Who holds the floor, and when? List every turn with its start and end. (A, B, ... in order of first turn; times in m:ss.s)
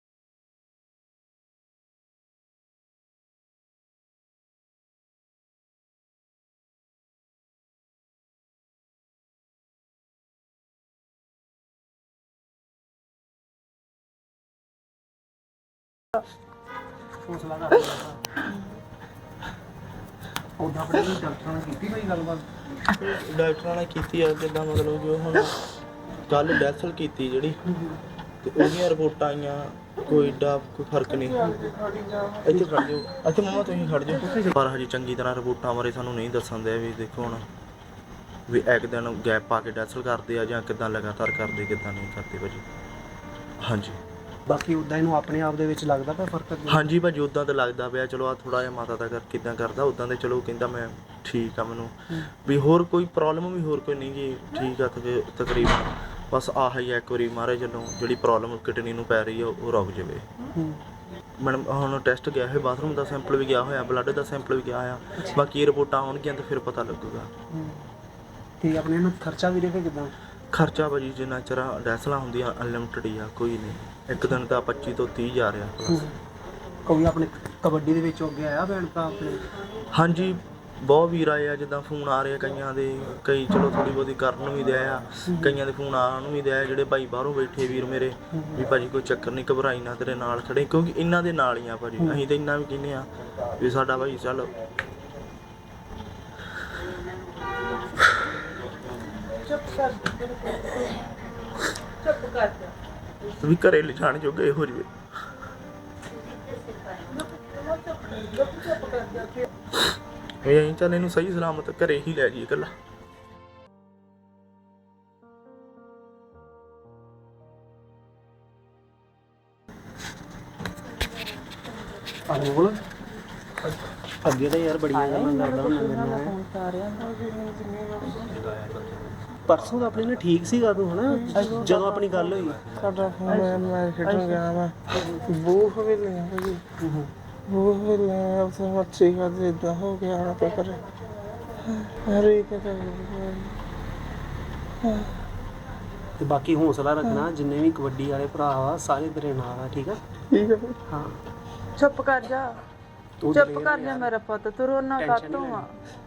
0:17.2-0:18.2 A
0:20.6-0:22.5 A
0:22.9-0:25.7 B
0:26.3-0:27.6 B
0:28.4-0:31.6 B
0:31.5-0:32.5 C
0:32.4-0:37.4 B
0:38.5-0:42.6 B
0:43.6-0:44.0 B
0:44.5-0:46.9 A
0:46.7-1:00.2 B
1:00.5-1:00.8 A
1:01.4-1:07.3 B
1:07.5-1:07.8 A
1:08.6-1:10.1 A
1:10.5-1:16.1 B
1:15.9-1:16.1 A
1:16.8-1:19.4 A
1:19.9-1:34.5 B
1:25.3-1:25.6 A
1:39.5-1:40.8 A
1:42.0-1:42.7 D
1:43.3-1:44.9 B
1:48.0-1:49.4 D
1:50.4-1:52.7 B
2:02.3-2:02.8 A
2:04.2-2:06.3 A
2:04.9-2:07.2 D
2:07.2-2:08.2 C
2:08.2-2:08.9 B
2:09.4-2:12.8 A
2:11.3-2:12.0 D
2:12.8-2:16.6 C
2:13.2-2:14.6 D
2:16.8-2:17.1 A
2:17.5-2:20.8 C
2:21.8-2:23.5 C
2:26.2-2:30.0 A
2:30.9-2:31.2 A
2:31.7-2:32.6 D
2:33.2-2:34.1 A
2:33.3-2:35.7 D
2:35.0-2:35.6 A